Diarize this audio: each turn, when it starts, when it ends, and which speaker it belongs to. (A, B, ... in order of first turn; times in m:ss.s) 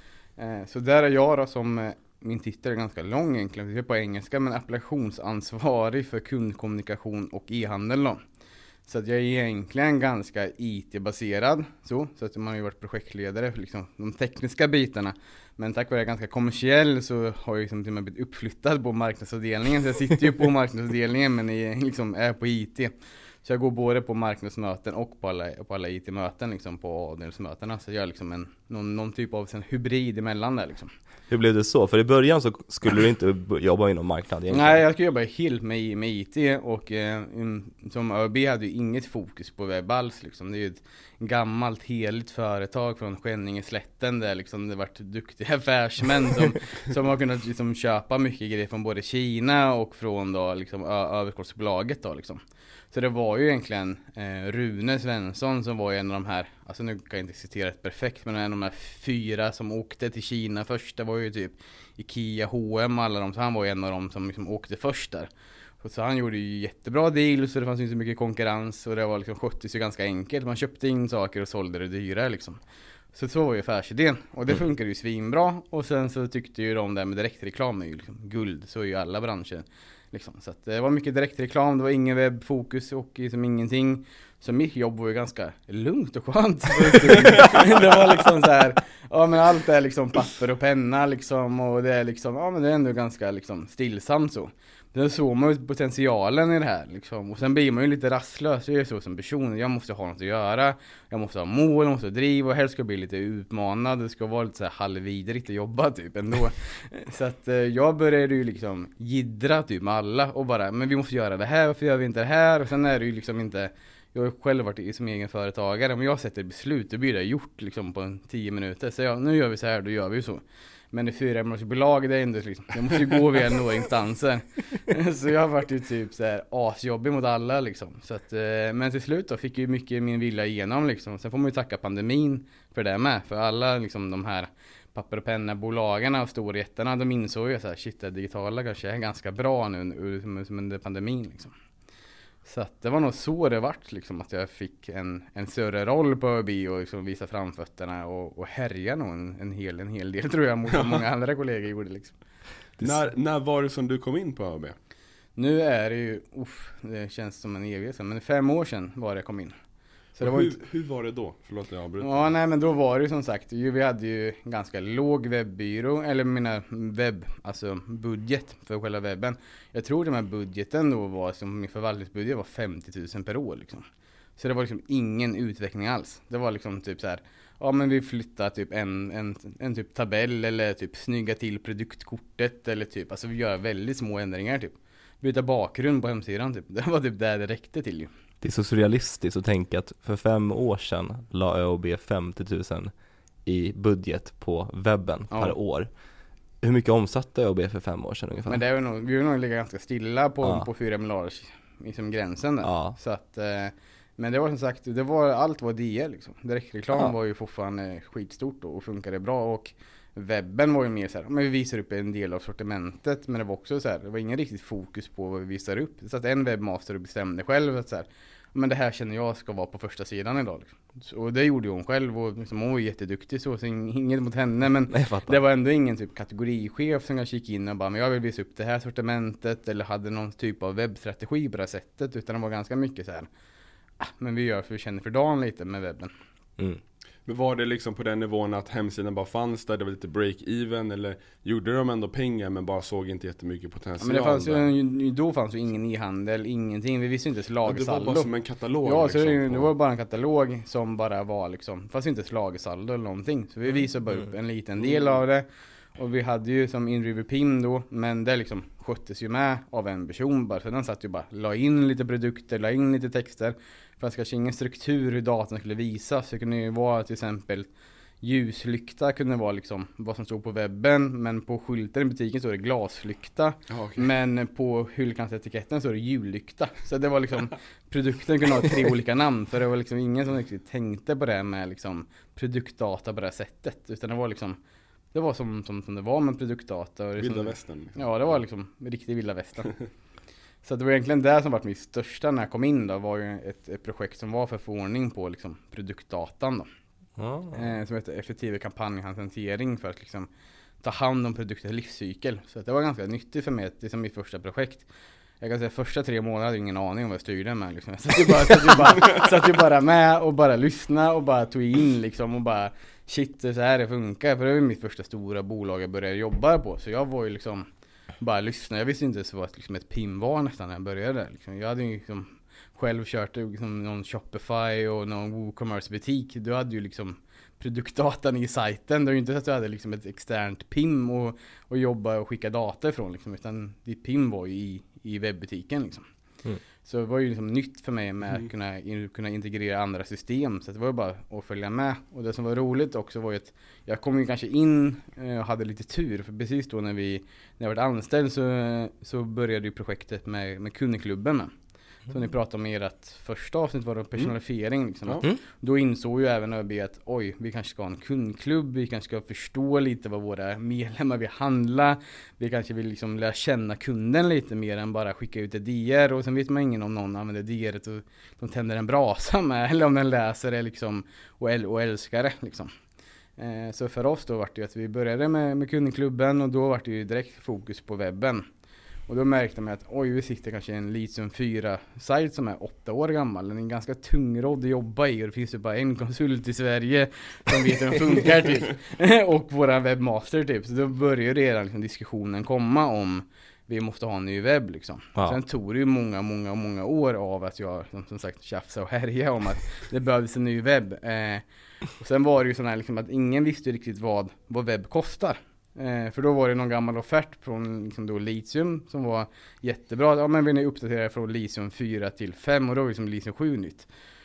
0:00.4-0:08.2 A
0:08.8-0:22.9 A
0:23.4-0:30.9 A
0:31.3-0:34.8 B
0:34.5-1:05.3 A
1:05.8-1:12.6 A
1:13.1-2:21.5 A
1:27.4-1:27.6 C
2:22.4-2:32.2 A
2:30.7-2:31.0 C
2:32.8-2:34.7 C
2:35.4-2:39.5 A
2:40.2-2:42.3 C
2:40.2-2:40.6 A
2:42.0-2:53.8 A
2:54.4-3:08.1 A
3:08.4-3:12.9 B
3:13.4-3:15.9 B
3:15.3-3:15.6 A
3:16.6-3:18.6 B
3:18.5-3:53.3 A
3:22.6-3:23.0 B
3:44.9-3:45.4 B
3:54.0-3:56.1 A
3:57.2-4:04.7 C
4:04.0-4:08.3 A
4:07.6-4:09.7 C
4:08.8-4:27.7 A
4:28.2-4:44.6 A
4:33.7-4:34.1 C
4:45.1-4:49.7 A
4:47.2-4:48.1 C
4:50.6-4:56.6 A
4:57.2-4:57.7 B
4:57.5-5:00.3 A
5:00.8-5:04.9 A
5:05.4-5:17.7 A
5:18.2-5:36.0 A
5:36.8-5:51.5 A
5:52.1-6:12.7 A
6:13.4-6:18.4 A
6:19.1-6:41.4 A
6:42.0-6:53.9 A